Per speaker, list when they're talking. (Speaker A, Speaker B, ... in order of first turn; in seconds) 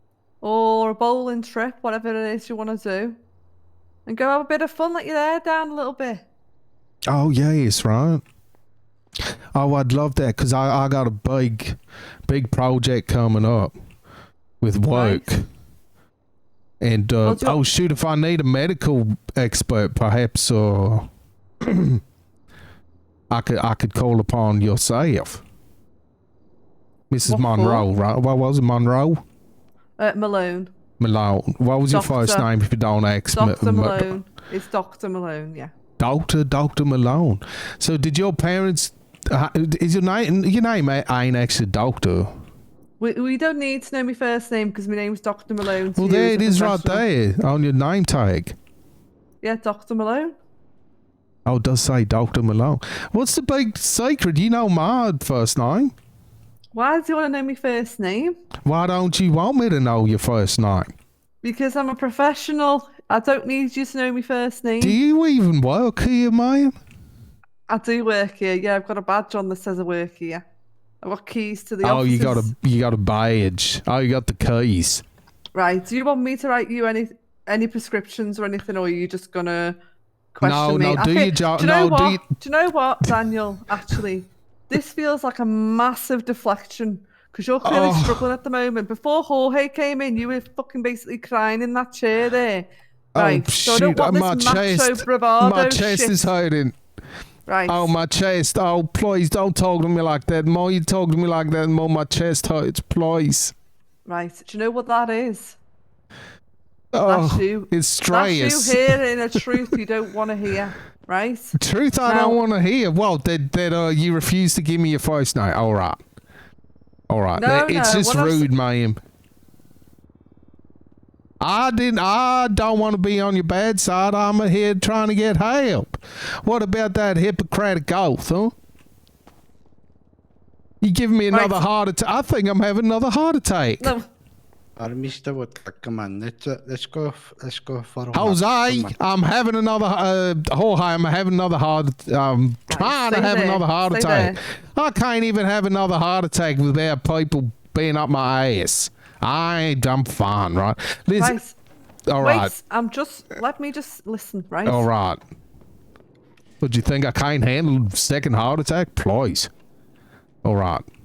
Speaker A: 0.4-3.2, 4.0-6.2, 14.9-15.3, 17.2-17.6, 27.2-27.9, 30.0-30.7, 31.9-32.5, 33.3-35.7, 43.0-47.0, 49.4-50.3, 56.7-58.4, 61.4-65.0, 67.7-70.4, 71.0-72.5, 75.5-79.8, 80.3-96.3, 97.5-97.9, 104.0-105.6, 107.0-112.4, 117.3-118.5, 131.3-131.6, 133.8-134.1, 142.7-144.4, 151.2-151.6, 152.2-154.9
Speaker B: 7.1-8.2, 9.5-13.7, 14.6-15.4, 16.8-21.1, 21.6-22.0, 23.3-25.4, 27.1-29.2, 31.0-34.1, 36.0-42.3, 45.9-48.5, 51.5-55.9, 58.6-60.9, 64.8-66.7, 71.8-75.0, 80.4-82.2, 87.6-88.3, 93.1-96.8, 97.7-103.5, 106.9-109.4, 111.6-116.0, 117.1-119.0, 121.4-128.5, 130.8-133.9, 138.1-151.4, 152.1-152.5, 154.7-155.2, 156.6-159.5, 160.4-160.8
Speaker C: 134.8-138.9